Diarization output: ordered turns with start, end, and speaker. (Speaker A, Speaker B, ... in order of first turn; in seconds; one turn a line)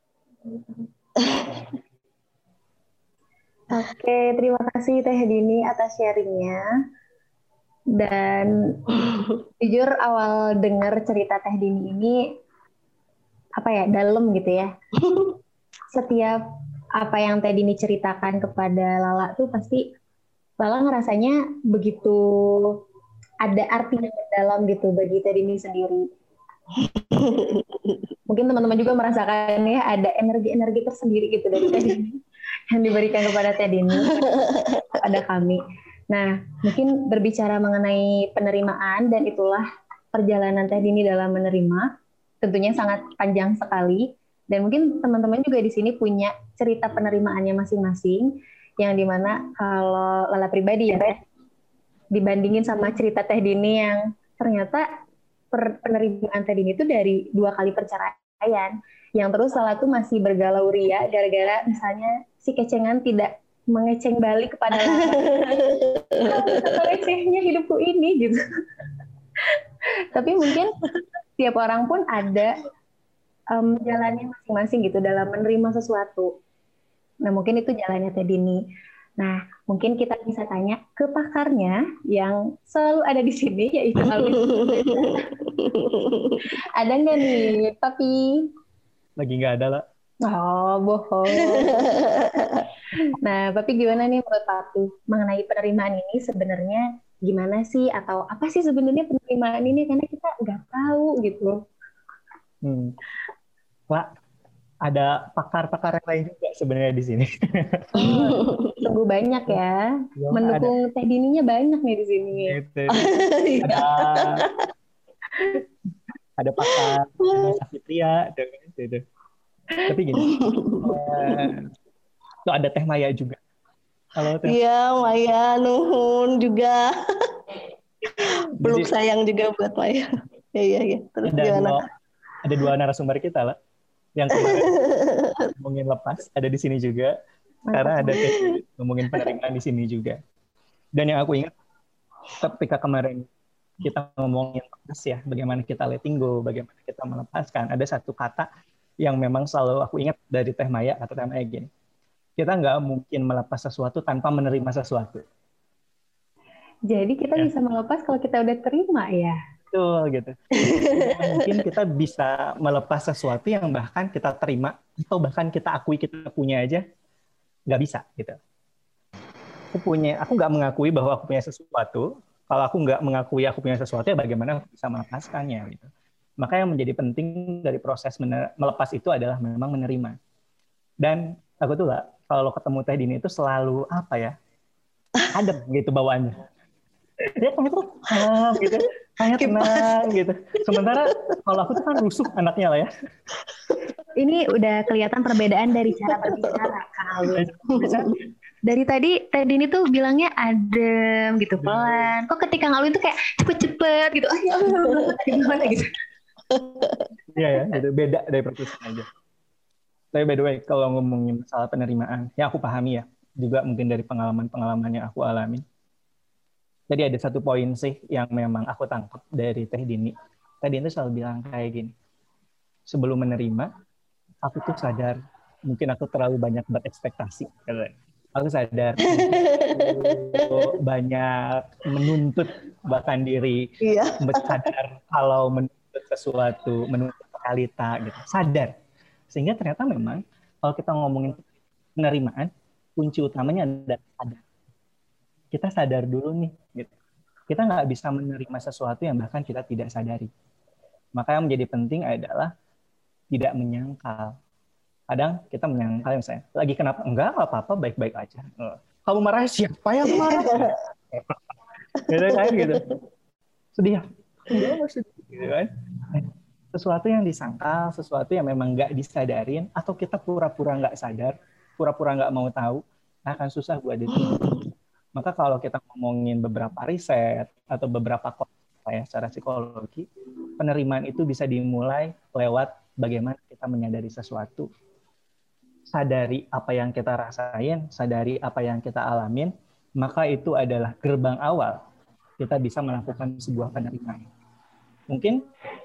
Speaker A: 1.2-1.8
Speaker B: 3.7-6.6
Speaker B: 8.0-8.8
Speaker B: 9.6-12.2
Speaker B: 13.6-14.7
Speaker A: 15.0-15.4
Speaker B: 15.9-16.4
Speaker B: 17.0-19.9
Speaker B: 20.6-22.8
Speaker B: 23.4-26.1
Speaker A: 26.8-28.1
Speaker B: 28.3-32.2
Speaker A: 31.6-31.9
Speaker B: 32.7-34.2
Speaker A: 34.1-34.9
Speaker B: 35.0-41.9
Speaker B: 42.4-48.3
Speaker B: 48.8-51.1
Speaker B: 52.1-54.9
Speaker B: 55.5-65.4
Speaker A: 64.8-66.8
Speaker B: 66.2-68.4
Speaker B: 70.1-70.8
Speaker B: 71.4-72.6
Speaker B: 73.5-76.3
Speaker B: 77.2-78.6
Speaker B: 79.2-85.3
Speaker A: 84.0-86.5
Speaker B: 86.8-88.5
Speaker C: 89.2-89.8
Speaker B: 90.2-92.0
Speaker A: 91.3-92.7
Speaker B: 93.0-101.6
Speaker C: 102.6-103.0
Speaker C: 104.8-108.2
Speaker B: 108.0-112.6
Speaker A: 108.0-108.9
Speaker C: 110.2-110.7
Speaker C: 112.5-113.1
Speaker A: 112.9-114.5
Speaker C: 113.6-114.5
Speaker C: 116.4-119.0
Speaker A: 116.7-117.6
Speaker C: 119.9-120.3
Speaker A: 120.3-121.5
Speaker C: 120.8-121.7
Speaker C: 122.5-123.4
Speaker C: 124.2-124.6
Speaker A: 124.4-127.3
Speaker A: 128.2-131.8
Speaker C: 128.6-128.9
Speaker C: 131.3-131.8
Speaker C: 132.4-133.6
Speaker C: 134.2-134.8
Speaker A: 134.3-135.5
Speaker C: 135.6-137.1
Speaker B: 137.7-138.1
Speaker C: 137.7-140.2
Speaker C: 141.0-141.5
Speaker C: 142.4-143.3
Speaker C: 143.8-148.5
Speaker C: 149.0-151.7
Speaker C: 152.4-155.2
Speaker B: 156.9-159.4
Speaker C: 159.7-166.8
Speaker A: 160.6-161.6
Speaker C: 167.7-168.4
Speaker C: 169.7-175.9
Speaker C: 176.4-180.2
Speaker C: 181.0-184.3
Speaker C: 185.3-186.4
Speaker C: 187.4-192.9
Speaker A: 188.2-188.9
Speaker A: 189.4-191.8
Speaker B: 194.2-197.5
Speaker A: 195.9-196.7
Speaker C: 197.3-198.1
Speaker A: 197.7-198.2
Speaker B: 198.7-205.9
Speaker C: 201.6-202.0
Speaker A: 204.8-205.2
Speaker A: 206.5-207.8
Speaker C: 207.3-209.1
Speaker C: 210.1-215.6
Speaker C: 216.9-221.9
Speaker C: 222.9-223.7
Speaker C: 224.4-229.4
Speaker A: 229.1-230.7
Speaker C: 230.3-238.7
Speaker A: 233.8-234.7
Speaker C: 239.3-241.4
Speaker C: 242.0-244.4
Speaker C: 245.5-246.9
Speaker C: 247.5-250.3
Speaker C: 251.2-252.5
Speaker C: 253.3-254.4
Speaker C: 255.1-261.5
Speaker A: 260.1-260.7
Speaker C: 262.1-262.8
Speaker A: 262.1-262.8
Speaker C: 263.8-274.6
Speaker A: 274.1-274.6
Speaker C: 275.1-280.1
Speaker C: 280.6-284.7
Speaker C: 285.9-291.8
Speaker C: 292.4-294.2
Speaker C: 295.1-295.4